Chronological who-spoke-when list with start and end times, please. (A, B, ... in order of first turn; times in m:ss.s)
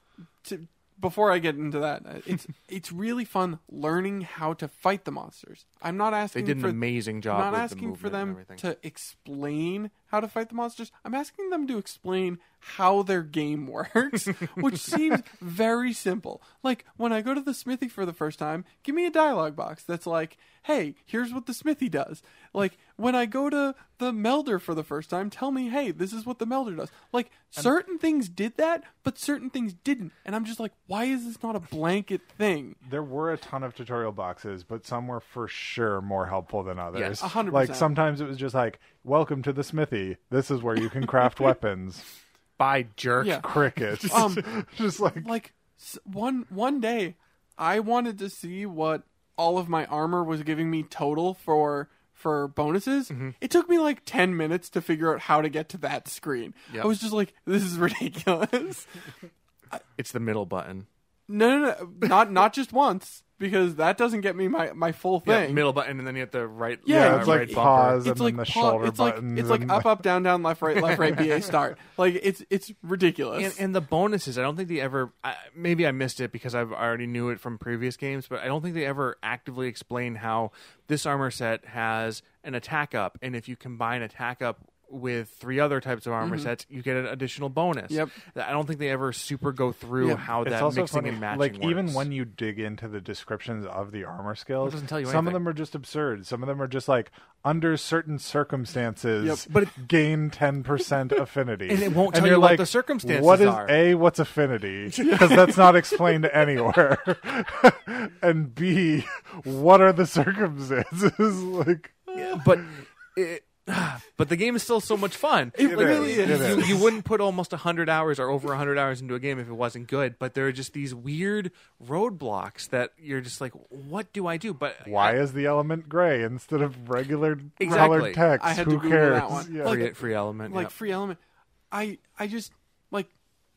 0:00.4-0:32.8 A
0:06.3-0:08.6 B
0:32.8-0:42.0 C
0:36.9-0:37.2 B
0:37.2-0:37.9 A
0:42.6-0:43.4 B
0:43.2-0:44.5 A
0:43.4-0:45.3 C
0:45.2-0:59.0 A
0:53.1-0:53.4 B
1:00.0-1:00.9 B
1:01.3-1:05.7 A
1:05.2-1:08.1 B
1:06.9-1:13.6 A
1:06.9-1:10.1 C
1:13.4-1:32.1 B
1:26.2-1:26.5 A
1:27.9-1:28.2 A
1:30.0-1:30.3 A
1:30.4-1:52.1 C
1:34.6-1:35.4 B
1:39.2-1:39.5 A
1:39.5-1:39.7 B
1:41.7-1:43.8 B
1:45.0-1:46.0 A
1:52.2-2:05.2 B
1:55.6-1:56.8 A
1:55.6-1:56.8 C
2:04.8-2:09.9 C
2:07.6-2:08.3 B
2:07.7-2:11.2 A
2:09.5-2:10.7 B
2:11.7-2:13.1 A